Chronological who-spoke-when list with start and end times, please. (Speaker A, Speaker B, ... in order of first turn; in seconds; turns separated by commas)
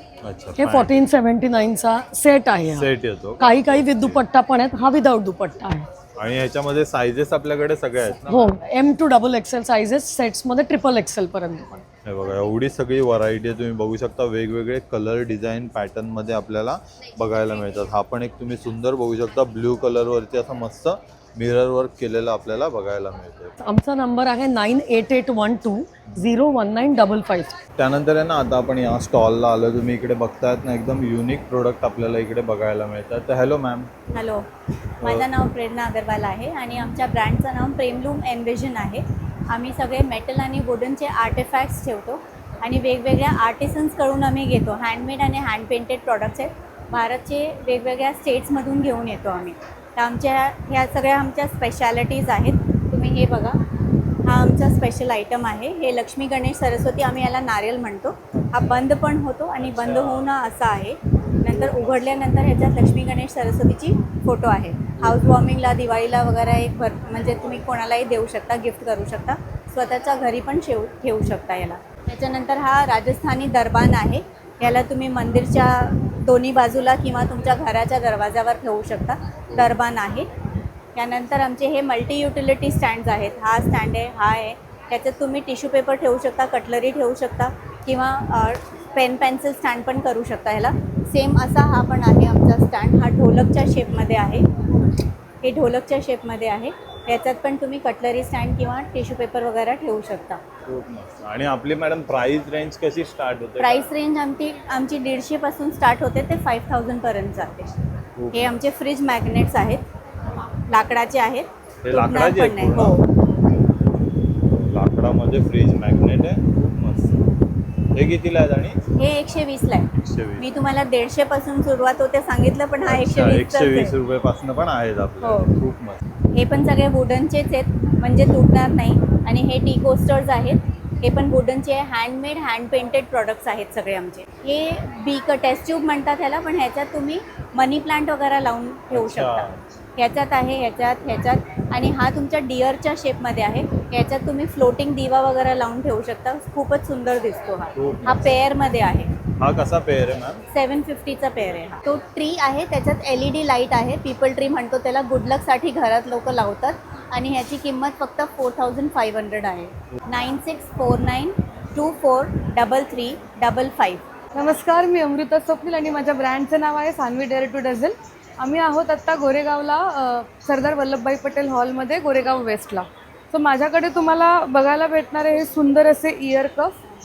Speaker A: 0.2-1.0, Speaker B: 0.6-5.9, Speaker A: 2.7-4.2, Speaker A: 6.2-8.6, Speaker B: 8.2-11.8, Speaker A: 12.1-23.5, Speaker B: 23.6-27.6, Speaker A: 27.8-33.9, Speaker C: 34.1-34.5, Speaker A: 35.0-35.3, Speaker C: 35.0-53.6, Speaker C: 54.2-80.3, Speaker A: 59.6-60.3, Speaker A: 61.5-61.9, Speaker A: 65.0-65.3, Speaker C: 81.0-94.4, Speaker C: 95.4-100.4, Speaker A: 100.7-103.8, Speaker C: 103.6-107.7, Speaker A: 108.2-108.6, Speaker C: 108.3-109.8, Speaker C: 110.7-113.0, Speaker A: 111.8-113.0, Speaker A: 114.4-117.2, Speaker A: 118.0-118.8, Speaker C: 119.0-124.0, Speaker A: 120.0-120.5, Speaker A: 122.8-126.0, Speaker C: 125.2-125.5, Speaker C: 126.3-149.2, Speaker A: 138.9-139.6, Speaker A: 147.8-148.4, Speaker A: 149.4-150.4, Speaker C: 150.5-164.0, Speaker D: 164.3-176.8